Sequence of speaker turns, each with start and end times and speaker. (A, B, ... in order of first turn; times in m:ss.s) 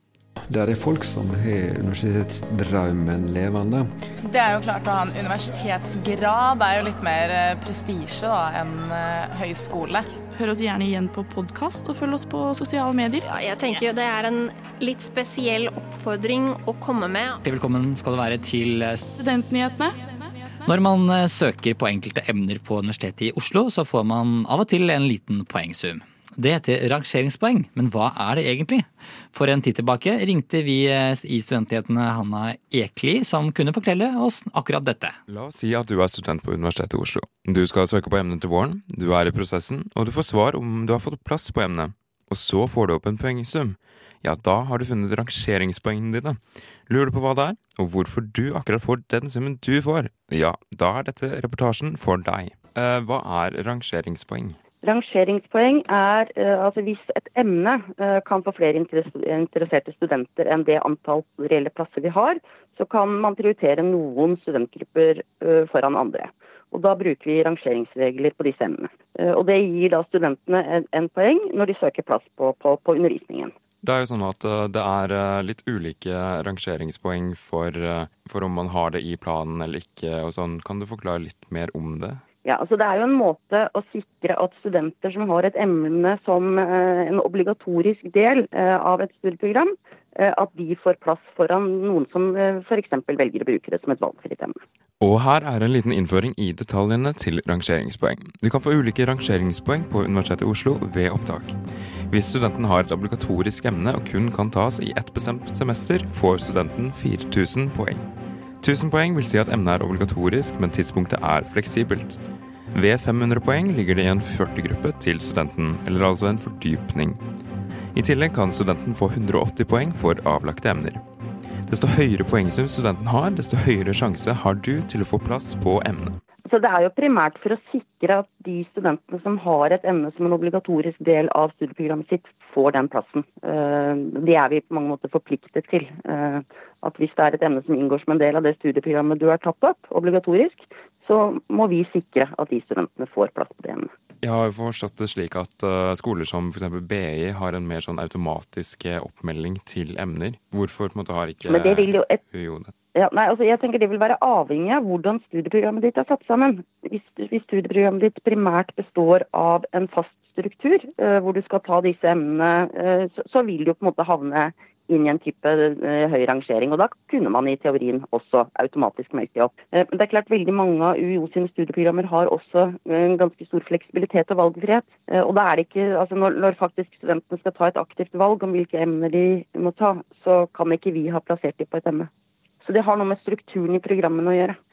0:00.4-0:03.9 A
0:04.2-0:10.2 B
0:10.3-0:13.2 C
0:13.2-0:17.4 D
0:17.4-0:19.0 E
0:19.2-0:20.4 C
0:20.6-0:35.2 E
0:35.3-0:54.6 F
0:54.8-1:13.5 G
1:13.8-1:22.2 F
1:22.4-1:34.6 G
1:35.0-1:41.6 F
1:42.1-1:48.1 F
1:48.6-1:52.2 F
1:52.7-1:57.2 F
1:57.9-2:01.0 F
2:01.7-2:06.2 F
2:06.4-2:23.9 G
2:24.2-2:32.7 F
2:31.4-2:32.2 G
2:32.9-3:02.1 G
3:02.6-3:04.6 G